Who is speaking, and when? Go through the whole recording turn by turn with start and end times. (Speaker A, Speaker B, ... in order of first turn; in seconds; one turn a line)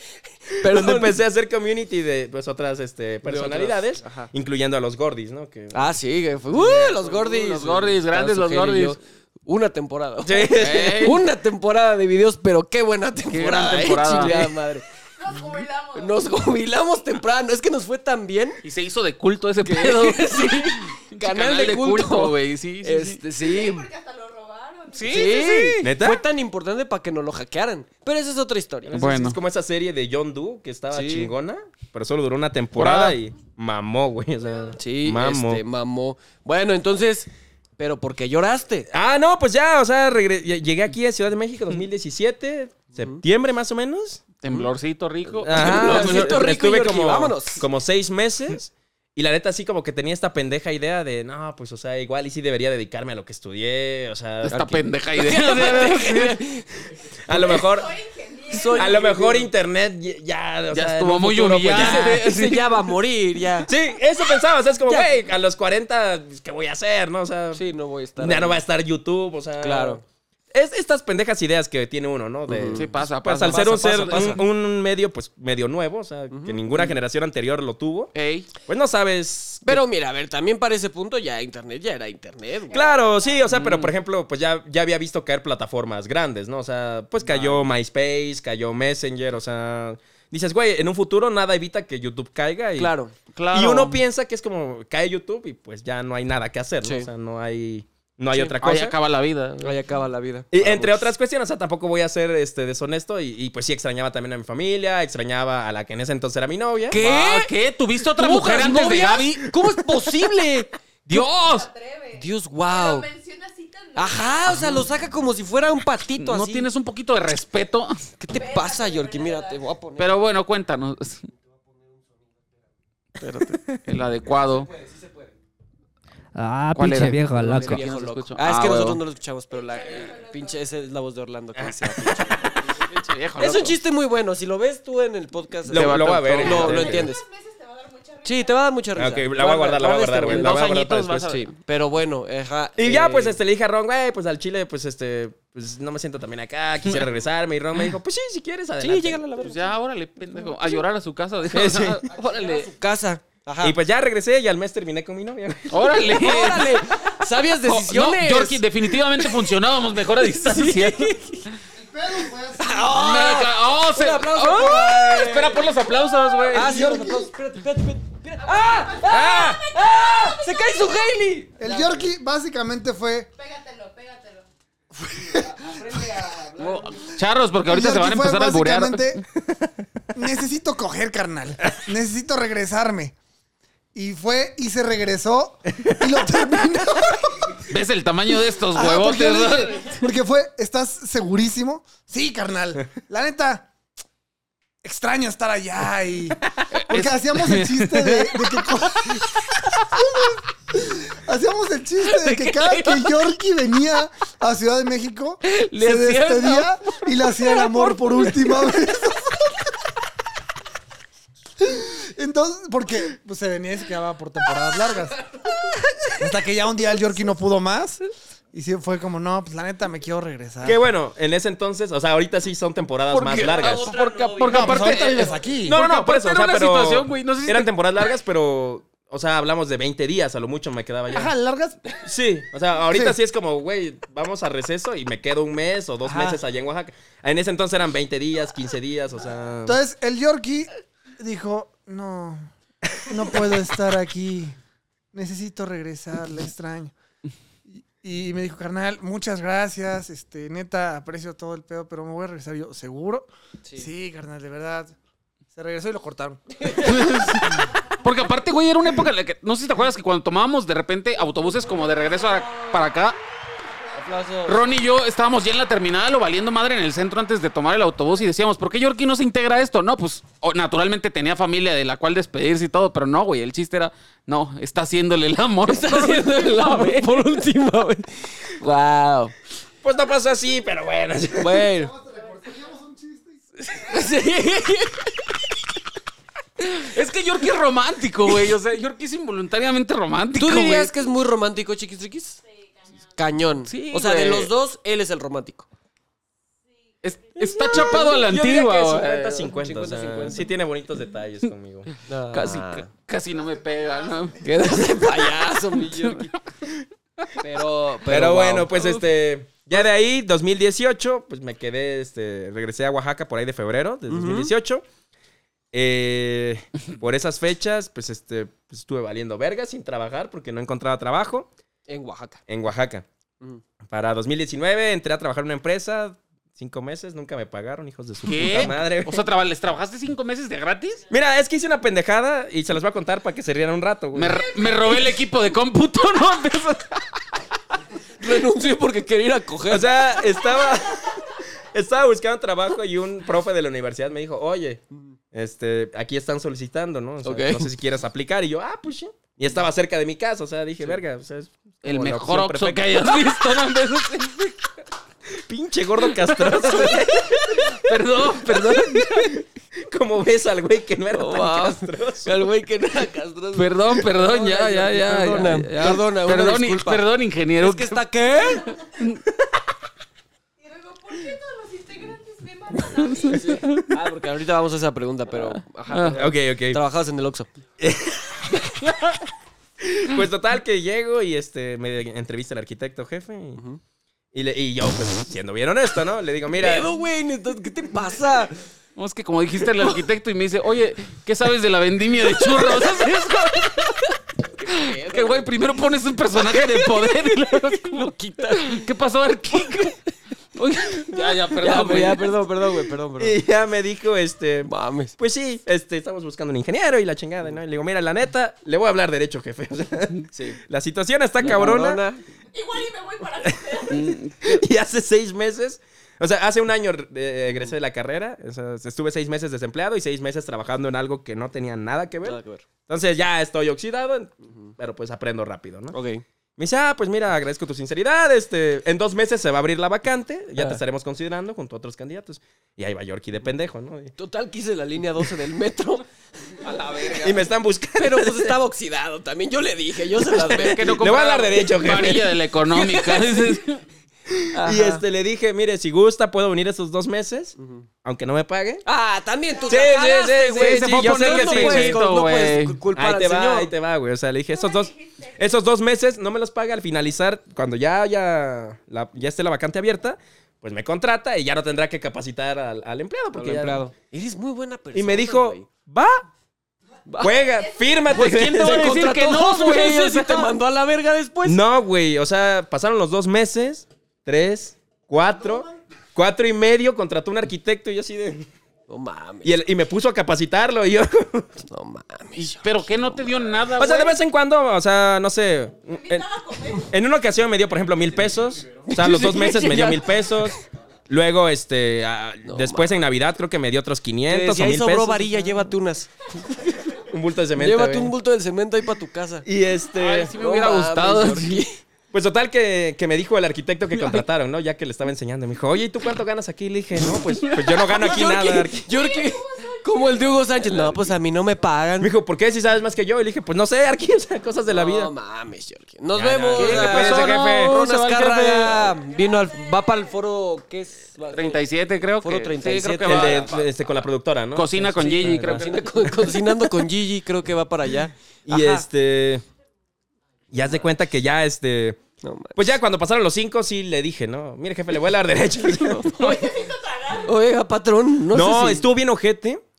Speaker A: 0.5-1.2
Speaker B: 0.6-5.9
Speaker A: 3.2-4.3
Speaker A: 5.7-15.4
Speaker C: 6.5-9.0
Speaker B: 10.2-11.0
Speaker C: 10.6-11.2
Speaker C: 13.3-14.5
Speaker D: 15.2-16.3
Speaker A: 15.9-18.6
Speaker C: 18.6-23.2
Speaker A: 19.6-23.9
Speaker D: 23.4-25.5
Speaker C: 24.9-25.9
Speaker A: 25.1-28.9
Speaker B: 25.8-26.2
Speaker B: 28.9-35.6
Speaker C: 28.9-29.4
Speaker A: 30.9-31.3
Speaker C: 32.8-33.2
Speaker A: 34.8-38.9
Speaker B: 38.9-44.4
Speaker A: 43.0-43.2
Speaker C: 44.4-46.5
Speaker A: 45.4-47.6
Speaker B: 45.5-54.8
Speaker C: 54.5-56.4
Speaker A: 54.5-56.8
Speaker B: 57.3-57.9
Speaker A: 57.3-57.6
Speaker D: 57.3-59.0
Speaker A: 58.5-59.5
Speaker B: 58.7-62.2
Speaker C: 60.7-62.8
Speaker A: 61.7-63.7
Speaker B: 63.7-67.6
Speaker A: 67.5-68.6
Speaker B: 68.2-70.0
Speaker A: 69.6-70.0
Speaker B: 70.5-78.1
Speaker A: 72.5-74.4
Speaker C: 72.8-74.4
Speaker A: 76.3-76.9
Speaker C: 78.1-78.5
Speaker B: 78.7-79.8
Speaker A: 79.7-82.9
Speaker D: 82.7-83.4
Speaker B: 82.7-92.9
Speaker C: 83.5-83.9
Speaker C: 87.3-87.6
Speaker A: 92.8-93.1
Speaker C: 93.3-94.0
Speaker B: 93.5-99.0
Speaker A: 96.8-97.1
Speaker C: 98.3-99.8
Speaker A: 99.6-101.1
Speaker B: 100.5-107.0
Speaker A: 106.9-107.5
Speaker C: 107.0-109.5
Speaker A: 108.1-111.2
Speaker C: 111.1-111.7
Speaker D: 111.1-114.5
Speaker A: 112.2-113.1
Speaker A: 114.0-116.7
Speaker C: 114.5-114.8
Speaker C: 116.2-118.1
Speaker A: 118.2-120.2
Speaker D: 118.3-119.6
Speaker C: 120.0-121.3
Speaker C: 123.2-124.7
Speaker E: 126.3-127.9
Speaker C: 126.7-129.0
Speaker A: 127.3-132.6
Speaker D: 129.5-130.7
Speaker B: 131.6-132.6
Speaker C: 132.8-133.8
Speaker A: 133.4-137.2
Speaker C: 135.7-137.0
Speaker B: 135.7-137.1
Speaker D: 136.6-138.6
Speaker A: 138.2-143.4
Speaker B: 139.0-141.2
Speaker C: 140.3-141.5
Speaker B: 142.8-149.2
Speaker A: 148.8-149.7
Speaker C: 149.4-152.7
Speaker A: 150.3-150.8
Speaker B: 151.5-152.0
Speaker A: 152.1-153.8
Speaker B: 153.6-156.0
Speaker C: 155.7-161.2
Speaker A: 155.9-158.6
Speaker A: 160.4-161.4
Speaker E: 161.7-163.2
Speaker A: 162.6-165.9
Speaker C: 162.9-166.9
Speaker A: 166.4-172.0
Speaker E: 166.6-167.3
Speaker D: 168.4-171.1
Speaker B: 169.0-169.7
Speaker E: 171.6-173.3
Speaker D: 173.3-174.5
Speaker E: 175.1-175.5
Speaker A: 175.3-177.1
Speaker C: 176.6-179.2
Speaker E: 177.7-179.2
Speaker E: 180.1-183.2
Speaker E: 183.9-187.6
Speaker C: 187.7-190.0
Speaker E: 188.7-193.7
Speaker E: 194.8-209.7
Speaker C: 196.7-200.0
Speaker C: 202.0-203.2
Speaker C: 205.4-208.8
Speaker E: 211.6-215.3
Speaker E: 216.1-220.8
Speaker B: 220.6-223.9
Speaker C: 223.1-227.7
Speaker A: 223.4-225.4
Speaker E: 224.5-225.8
Speaker B: 225.6-231.3
Speaker E: 231.1-231.9
Speaker B: 232.1-239.8
Speaker E: 239.7-244.6
Speaker E: 245.1-246.9
Speaker E: 247.7-254.9
Speaker A: 253.7-253.9
Speaker E: 255.5-257.3
Speaker A: 256.6-257.2
Speaker C: 256.8-263.2
Speaker D: 261.7-264.4
Speaker A: 263.9-264.6
Speaker C: 264.4-277.2
Speaker A: 275.7-279.4
Speaker B: 279.8-281.6
Speaker A: 281.4-281.9
Speaker E: 281.6-284.1
Speaker A: 283.6-285.2
Speaker C: 286.6-290.9
Speaker A: 290.4-292.4
Speaker A: 293.2-295.7
Speaker C: 293.7-294.5
Speaker C: 297.0-299.5
Speaker A: 297.5-300.5
Speaker B: 297.8-301.9
Speaker A: 302.1-302.9
Speaker C: 302.3-304.4
Speaker D: 303.3-304.4
Speaker A: 304.4-306.3
Speaker C: 305.6-306.3
Speaker A: 307.4-308.8
Speaker B: 308.1-314.8
Speaker A: 314.1-314.5
Speaker B: 315.7-321.5
Speaker A: 321.9-322.4
Speaker B: 322.5-323.1
Speaker B: 323.9-329.2
Speaker C: 328.2-331.0
Speaker B: 331.1-334.7
Speaker C: 334.1-337.2
Speaker A: 338.2-340.0
Speaker B: 339.7-352.9
Speaker A: 347.2-347.7
Speaker C: 351.8-354.6
Speaker B: 355.4-357.7
Speaker C: 356.2-359.4
Speaker B: 358.5-362.4
Speaker A: 361.1-367.1
Speaker C: 363.6-368.0
Speaker A: 367.6-368.7
Speaker D: 370.6-373.6
Speaker A: 373.3-377.5
Speaker C: 373.5-373.8
Speaker B: 376.1-376.8
Speaker B: 377.8-378.7
Speaker C: 378.8-379.2
Speaker B: 379.8-383.6
Speaker B: 384.3-386.9
Speaker A: 386.6-388.6
Speaker C: 389.0-394.1
Speaker A: 392.4-393.3
Speaker A: 394.6-395.6
Speaker C: 394.7-400.0
Speaker A: 396.5-398.8
Speaker C: 400.6-402.4
Speaker A: 401.6-403.4
Speaker B: 403.2-412.0
Speaker A: 404.7-405.1
Speaker A: 410.3-410.6
Speaker A: 411.4-412.2
Speaker D: 412.5-414.2
Speaker B: 413.4-426.0
Speaker C: 413.9-414.6
Speaker A: 422.2-422.6
Speaker A: 424.4-424.7
Speaker A: 425.9-426.2
Speaker B: 426.6-434.1
Speaker A: 434.2-436.1
Speaker C: 436.6-437.3
Speaker A: 436.7-437.2
Speaker B: 437.1-438.6
Speaker A: 438.0-441.1
Speaker C: 440.4-443.8
Speaker B: 440.5-442.4
Speaker A: 442.7-443.6
Speaker B: 444.3-448.8
Speaker A: 444.5-445.0
Speaker A: 447.6-447.9
Speaker A: 448.9-453.7
Speaker B: 449.7-452.0
Speaker C: 450.3-452.8
Speaker B: 452.9-463.8
Speaker D: 454.5-455.4
Speaker A: 463.3-465.7
Speaker B: 464.9-466.2
Speaker A: 467.1-467.4
Speaker B: 467.2-469.0
Speaker D: 467.5-468.1
Speaker C: 468.1-470.5
Speaker A: 468.2-471.6
Speaker B: 471.4-478.5
Speaker A: 478.9-479.5
Speaker B: 479.4-481.6
Speaker A: 481.7-483.6
Speaker C: 482.4-484.2
Speaker B: 483.8-495.3
Speaker D: 485.9-486.9
Speaker A: 488.9-490.6
Speaker A: 492.4-492.9
Speaker A: 494.3-496.1
Speaker B: 497.1-498.1
Speaker A: 497.6-499.5
Speaker B: 499.4-500.4
Speaker C: 500.0-501.7
Speaker A: 500.3-501.8
Speaker B: 502.1-508.9
Speaker C: 507.4-508.0
Speaker A: 508.0-512.1
Speaker D: 508.2-510.9
Speaker B: 512.0-515.1
Speaker A: 514.7-521.7
Speaker B: 516.1-517.8
Speaker C: 516.5-519.0
Speaker D: 519.0-520.1
Speaker C: 521.3-523.7
Speaker A: 522.2-523.5
Speaker B: 523.0-525.6
Speaker C: 524.5-526.1
Speaker A: 525.0-528.9
Speaker B: 528.5-529.5
Speaker B: 530.5-532.0
Speaker A: 532.2-532.7
Speaker B: 532.5-536.5
Speaker A: 535.8-536.3
Speaker D: 536.0-537.3
Speaker A: 537.2-538.9
Speaker B: 538.3-539.6